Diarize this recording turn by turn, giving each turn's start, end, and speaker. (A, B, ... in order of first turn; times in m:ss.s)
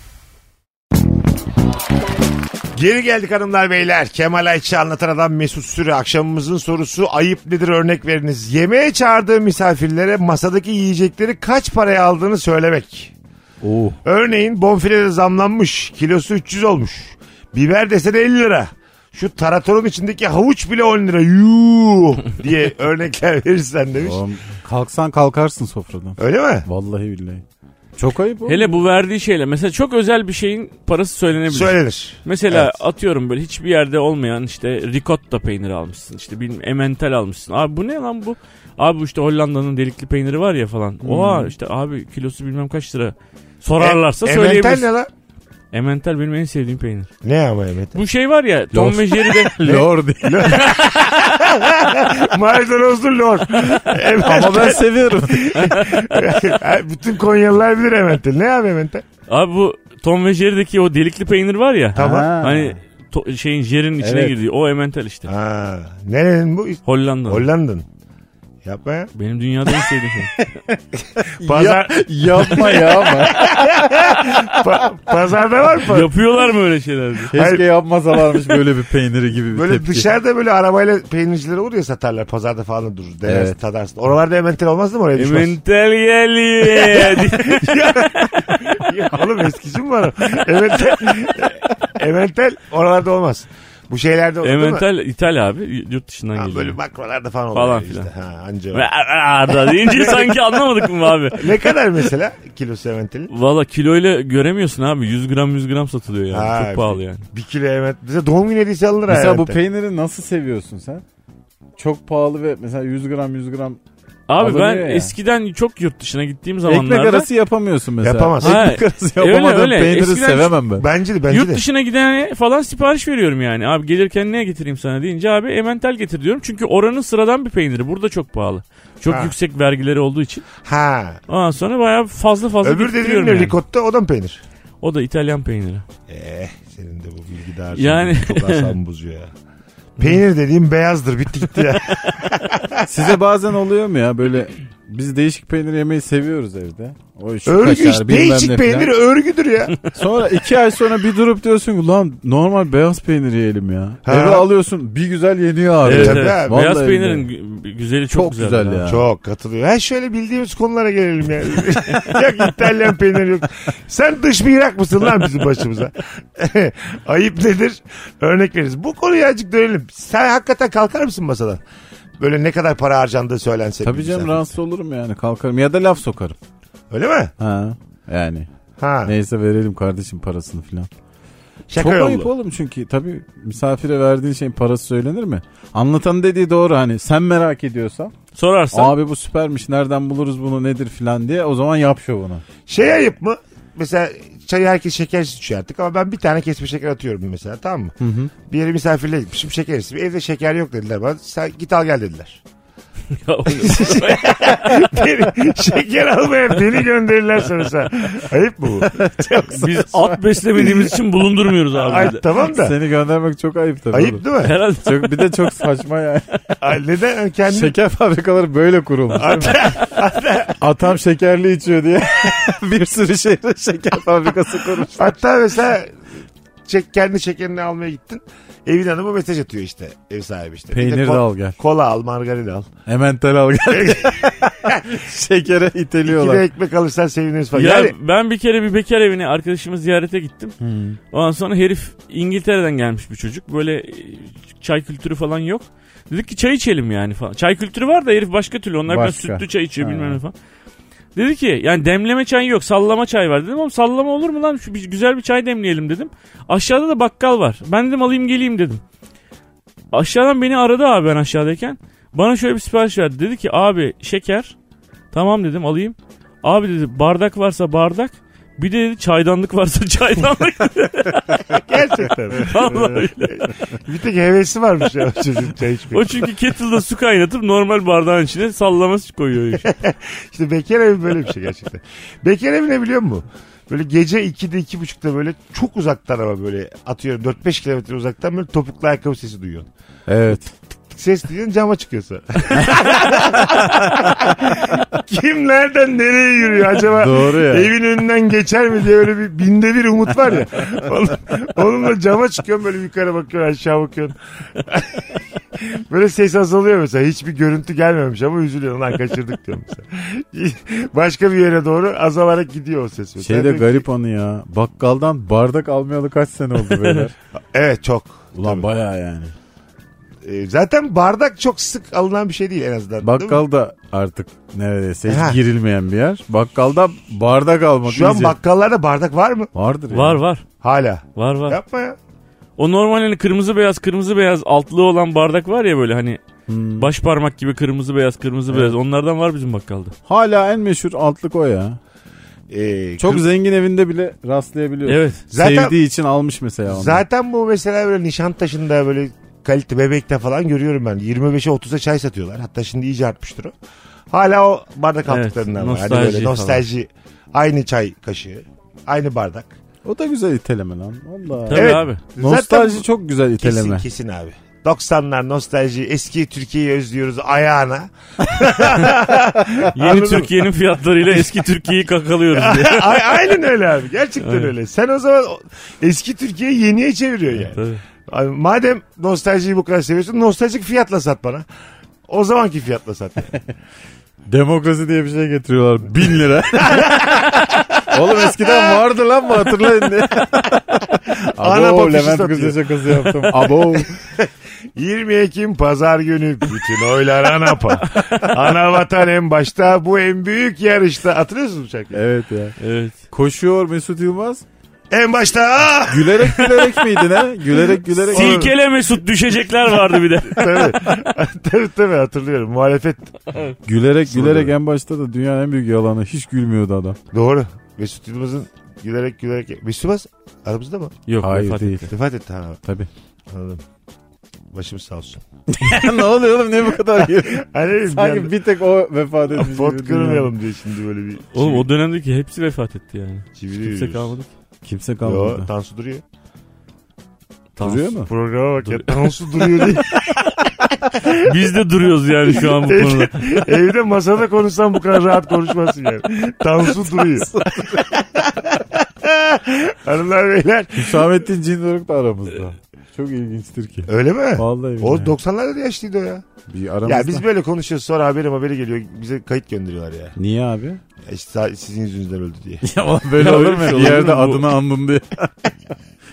0:02.8-0:13.1 A
0:13.6-0:14.0 B
0:14.0-0:24.2 A
0:24.0-0:27.4 B
0:26.2-0:26.7 A
0:28.0-0:28.7 B
0:28.5-0:44.9 C
0:31.5-0:32.8 A
0:41.0-0:41.5 B
0:43.8-0:45.1 A
0:45.7-0:47.1 C
0:47.2-0:48.0 A
0:48.0-0:49.6 C
0:48.7-0:50.7 B
0:49.6-0:59.0 A
0:54.2-0:55.8 B
0:55.6-0:56.2 C
0:59.3-1:05.3 C
1:02.0-1:02.3 A
1:02.0-1:02.8 B
1:04.0-1:04.4 B
1:05.3-1:07.9 A
1:06.8-1:07.5 C
1:08.6-1:09.1 A
1:09.2-1:10.3 C
1:10.7-1:14.8 B
1:11.3-1:16.1 A
1:15.8-1:17.3 C
1:17.3-1:20.1 B
1:17.3-1:17.6 A
1:19.5-1:25.6 A
1:23.3-1:23.6 B
1:25.2-1:28.8 C
1:26.7-1:34.9 A
1:34.4-1:36.8 C
1:36.4-1:38.9 A
1:37.5-1:38.1 C
1:38.7-1:41.7 C
1:39.6-1:40.4 A
1:41.3-1:43.3 A
1:43.3-1:47.2 C
1:46.3-1:49.6 A
1:49.1-1:51.0 B
1:51.8-1:53.8 B
1:54.3-1:57.3 C
1:54.4-1:55.1 B
1:56.7-2:00.8 B
1:58.0-1:58.6 A
1:58.4-2:00.5 C
2:00.8-2:01.6 A
2:01.3-2:10.5 C
2:09.1-2:09.3 A
2:10.6-2:11.2 A
2:11.3-2:13.6 C
2:12.6-2:14.4 A
2:14.8-2:15.8 C
2:16.1-2:19.3 A
2:17.7-2:18.8 C
2:20.0-2:22.9 A
2:22.8-2:28.9 B
2:27.5-2:29.8 A
2:29.9-2:37.3 B
2:34.0-2:34.5 A
2:35.8-2:38.8 C
2:35.8-2:36.6 A
2:38.1-2:39.0 B
2:38.9-2:51.6 A
2:52.2-2:54.5 A
2:53.8-2:56.4 B
2:56.9-2:57.3 A
2:57.4-2:58.5 B
2:58.8-2:59.1 A
2:59.1-3:00.9 B
3:01.7-3:02.3 A
3:01.8-3:08.1 B
3:08.3-3:09.0 C
3:08.7-3:12.4 B
3:12.7-3:22.4 A
3:18.0-3:18.3 B
3:23.1-3:24.9 C
3:23.5-3:29.6 A
3:28.9-3:29.8 B
3:29.5-3:32.2 C
3:30.6-3:30.8 A
3:31.7-3:32.8 A
3:32.5-3:34.2 B
3:33.9-3:34.6 A
3:34.4-3:35.4 C
3:34.8-3:36.3 B
3:36.6-3:37.7 A
3:37.5-3:39.6 B
3:39.1-3:40.6 A
3:40.6-3:45.1 B
3:45.0-3:45.9 A
3:46.7-3:52.7 A
3:50.7-3:51.6 B
3:52.9-3:56.4 B
3:53.7-3:54.8 A
3:56.0-3:58.0 A
3:57.5-4:00.6 C
4:00.6-4:01.0 B
4:01.1-4:10.3 C
4:08.9-4:10.2 B
4:11.2-4:18.8 C
4:19.9-4:24.6 C
4:25.1-4:31.5 C
4:31.5-4:36.2 A
4:32.4-4:33.5 C
4:35.9-4:39.7 C
4:39.6-4:49.7 A
4:50.1-4:50.5 B
4:50.9-5:13.8 A
4:53.4-4:53.9 B
4:56.9-4:57.7 B
5:13.2-5:17.1 B
5:16.7-5:17.1 C
5:17.5-5:18.7 A
5:18.4-5:19.3 B
5:20.2-5:23.4 A
5:23.0-5:28.4 B
5:25.1-5:25.4 A
5:27.9-5:29.5 A
5:29.5-5:30.2 B
5:29.9-5:30.5 C
5:30.6-5:32.0 A
5:31.2-5:31.6 C
5:32.6-5:36.2 C
5:36.5-5:36.9 B
5:36.8-5:39.9 C
5:40.1-5:41.8 B
5:42.5-5:43.3 A
5:43.0-5:47.0 B
5:44.9-5:45.2 C
5:45.3-5:45.8 A
5:46.7-5:53.5 A
5:54.1-5:59.5 A
5:55.1-5:56.6 C
5:59.8-6:03.8 B
6:01.5-6:02.0 C
6:01.5-6:02.8 A
6:03.4-6:10.3 A
6:09.7-6:13.2 C
6:12.3-6:21.5 A
6:14.2-6:14.5 C
6:17.5-6:17.8 C
6:22.1-6:23.3 A
6:24.3-6:33.9 B
6:26.6-6:28.8 A
6:31.4-6:42.0 A
6:37.9-6:38.3 C
6:41.9-6:42.6 B
6:42.6-6:43.0 C
6:43.1-6:44.4 B
6:44.9-6:46.4 A
6:45.9-6:48.5 B
6:48.1-6:48.5 A
6:48.1-6:50.8 C
6:50.2-6:53.1 A
6:53.7-6:57.0 B
6:54.1-6:54.5 A
6:57.1-7:01.0 A
7:01.1-7:01.9 C
7:01.2-7:01.9 B
7:01.9-7:02.6 A
7:02.6-7:02.9 B
7:03.3-7:03.6 A
7:04.5-7:05.2 A
7:05.5-7:10.3 B
7:07.0-7:08.3 A
7:09.3-7:11.7 A
7:11.3-7:14.3 C
7:13.4-7:14.1 A
7:14.6-7:15.5 B
7:15.0-7:16.0 A
7:17.6-7:17.9 C
7:17.6-7:18.1 B
7:18.1-7:20.2 A
7:18.6-7:19.1 C
7:21.0-7:21.4 A
7:21.2-7:23.4 C
7:22.4-7:31.0 A
7:26.9-7:27.9 B
7:30.7-7:35.1 B
7:33.9-7:36.2 A
7:36.5-7:37.2 B
7:36.8-7:40.1 A
7:40.2-7:40.8 B
7:41.1-7:42.6 A
7:42.6-7:45.3 B
7:43.2-7:44.5 C